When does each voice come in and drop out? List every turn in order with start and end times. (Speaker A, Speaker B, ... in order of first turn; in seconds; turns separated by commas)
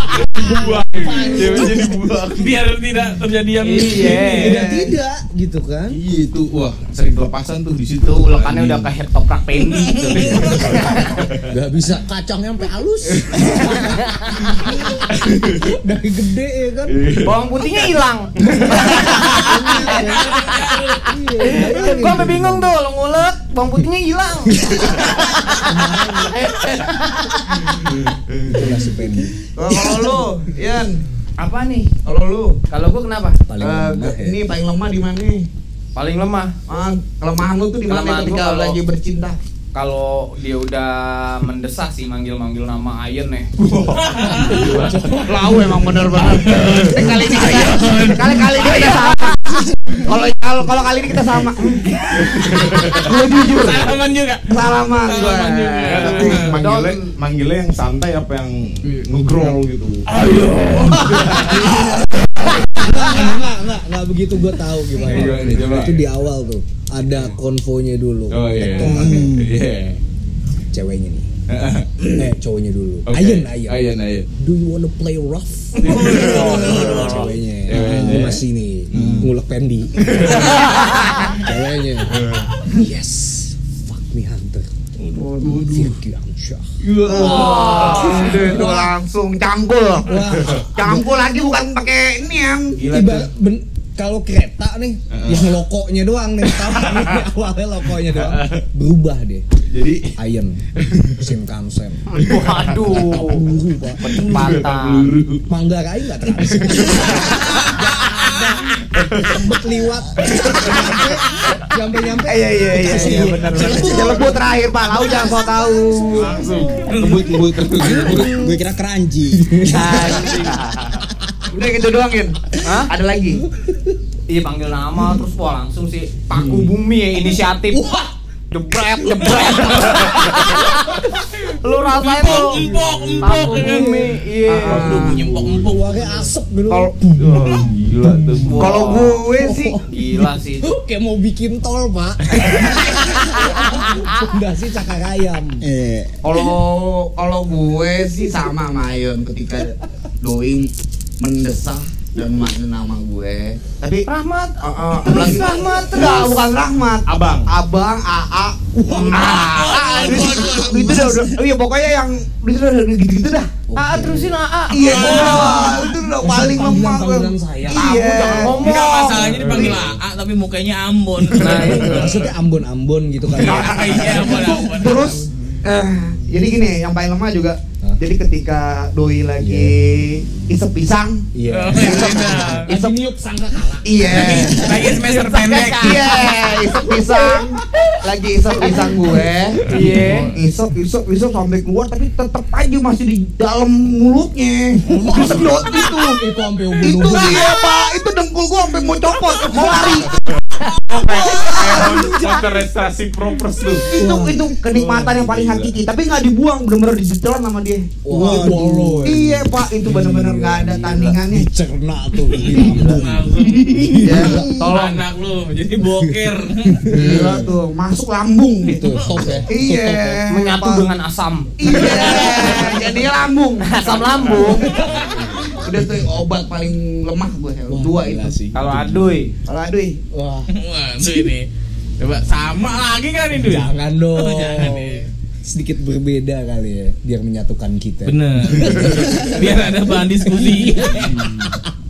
Speaker A: 0.2-2.5, Speaker B: 0.3-1.9, Speaker C: 1.0-1.6, Speaker D: 2.4-4.4, Speaker C: 3.6-4.7, Speaker B: 4.0-6.0, Speaker E: 4.4-4.8, Speaker A: 5.9-8.9, Speaker C: 8.0-11.1, Speaker D: 9.6-10.9, Speaker A: 10.1-11.5, Speaker B: 10.3-14.1, Speaker A: 13.2-13.7, Speaker C: 13.6-14.7, Speaker B: 14.6-15.0, Speaker A: 15.1-15.6, Speaker B: 15.6-17.0, Speaker A: 16.9-17.4, Speaker C: 17.2-27.9, Speaker A: 18.4-19.5, Speaker B: 18.9-22.7, Speaker D: 19.8-21.0, Speaker B: 24.5-26.5, Speaker A: 27.7-28.6, Speaker B: 28.5-30.2, Speaker E: 29.5-31.0, Speaker C: 31.4-31.9, Speaker E: 32.0-32.6, Speaker C: 32.7-33.4, Speaker B: 33.5-34.4, Speaker E: 33.6-35.5, Speaker C: 35.9-36.6, Speaker E: 36.7-39.4, Speaker C: 37.9-38.8, Speaker C: 39.7-43.5, Speaker A: 43.6-45.3, Speaker D: 44.0-44.9, Speaker B: 44.3-45.6, Speaker E: 45.2-52.2, Speaker D: 46.1-49.1, Speaker A: 46.6-47.1, Speaker C: 51.6-52.0, Speaker A: 52.1-53.1, Speaker E: 52.8-54.0, Speaker D: 53.4-56.6, Speaker E: 54.5-56.5, Speaker A: 55.9-60.1, Speaker C: 56.3-57.1, Speaker D: 60.1-63.2, Speaker A: 60.9-62.9, Speaker B: 62.8-69.3, Speaker A: 65.0-66.0, Speaker A: 68.3-70.0, Speaker F: 68.8-69.5, Speaker B: 70.7-71.3, Speaker A: 71.5-72.3, Speaker B: 72.1-86.7, Speaker A: 73.1-74.3, Speaker A: 75.8-78.4, Speaker D: 75.8-77.2, Speaker A: 78.9-79.3, Speaker F: 78.9-79.2, Speaker A: 80.0-81.3, Speaker A: 82.2-82.5, Speaker A: 85.1-85.9, Speaker E: 85.2-85.6, Speaker A: 86.8-88.4, Speaker E: 87.1-92.8, Speaker C: 87.1-88.3, Speaker B: 88.1-88.9, Speaker B: 90.0-91.3, Speaker A: 92.8-93.3, Speaker B: 92.9-99.4, Speaker A: 95.1-95.5, Speaker A: 96.5-97.2, Speaker A: 97.9-98.6, Speaker A: 99.6-100.2, Speaker B: 100.2-100.6, Speaker A: 100.8-101.2, Speaker B: 101.1-102.1, Speaker C: 102.1-103.4, Speaker A: 102.2-102.6, Speaker B: 102.8-104.5, Speaker C: 104.0-105.1, Speaker A: 104.1-105.5, Speaker B: 105.5-114.4, Speaker A: 106.4-107.7, Speaker D: 107.5-108.7, Speaker A: 108.9-109.5, Speaker A: 110.3-111.0, Speaker E: 112.2-116.4, Speaker B: 115.7-118.6, Speaker A: 116.1-118.4, Speaker D: 116.9-117.4, Speaker F: 118.1-120.1, Speaker B: 119.3-120.4, Speaker C: 119.7-120.9, Speaker E: 121.5-123.4, Speaker C: 122.6-122.9, Speaker B: 123.6-123.9, Speaker C: 124.3-127.9, Speaker B: 127.7-128.1, Speaker C: 128.5-135.0, Speaker B: 129.0-129.9, Speaker D: 131.9-134.1, Speaker B: 132.6-134.2, Speaker E: 134.5-135.3, Speaker D: 134.6-136.0, Speaker B: 135.5-138.7, Speaker A: 137.2-138.9, Speaker C: 138.4-140.7, Speaker E: 138.6-139.7, Speaker B: 139.3-145.6, Speaker C: 143.0-144.2, Speaker F: 145.6-146.2, Speaker E: 146.2-154.1, Speaker C: 154.1-156.5, Speaker E: 154.6-163.5, Speaker A: 157.1-157.5, Speaker D: 158.9-161.0, Speaker F: 160.9-161.3, Speaker B: 163.7-164.4, Speaker C: 163.8-165.6, Speaker E: 164.7-169.8, Speaker D: 164.8-165.8, Speaker B: 165.0-168.0, Speaker C: 167.7-169.3, Speaker D: 168.6-172.1, Speaker B: 169.1-170.0, Speaker B: 171.3-174.2, Speaker C: 171.4-172.0, Speaker A: 171.4-172.3, Speaker D: 173.4-175.2, Speaker A: 173.4-174.2, Speaker E: 173.8-182.9, Speaker B: 179.4-179.7, Speaker B: 181.3-184.7, Speaker D: 181.5-182.7, Speaker E: 183.8-184.9, Speaker D: 184.0-186.3, Speaker C: 184.7-187.4, Speaker E: 185.5-196.2, Speaker C: 188.6-188.9, Speaker C: 189.6-190.3, Speaker A: 189.7-190.3, Speaker B: 194.8-197.6, Speaker E: 196.8-200.2, Speaker B: 199.5-200.0, Speaker A: 200.8-203.9, Speaker B: 200.9-202.7, Speaker E: 203.9-211.5, Speaker B: 203.9-205.0, Speaker A: 204.7-205.8, Speaker B: 208.0-214.7, Speaker F: 208.1-209.1, Speaker D: 212.4-216.9, Speaker E: 213.8-214.4, Speaker C: 214.2-215.0, Speaker B: 216.7-217.5, Speaker E: 216.8-220.8, Speaker B: 218.6-220.2, Speaker D: 218.7-219.5, Speaker C: 220.3-222.4, Speaker E: 221.6-224.6, Speaker D: 221.7-222.8, Speaker C: 223.6-224.7, Speaker B: 224.3-225.6, Speaker D: 224.7-225.2, Speaker E: 225.2-228.3, Speaker B: 227.7-229.2, Speaker C: 228.5-229.3, Speaker E: 229.5-230.0, Speaker B: 230.1-231.3, Speaker D: 230.5-231.5, Speaker D: 232.0-235.1, Speaker B: 233.3-241.7, Speaker D: 238.0-241.1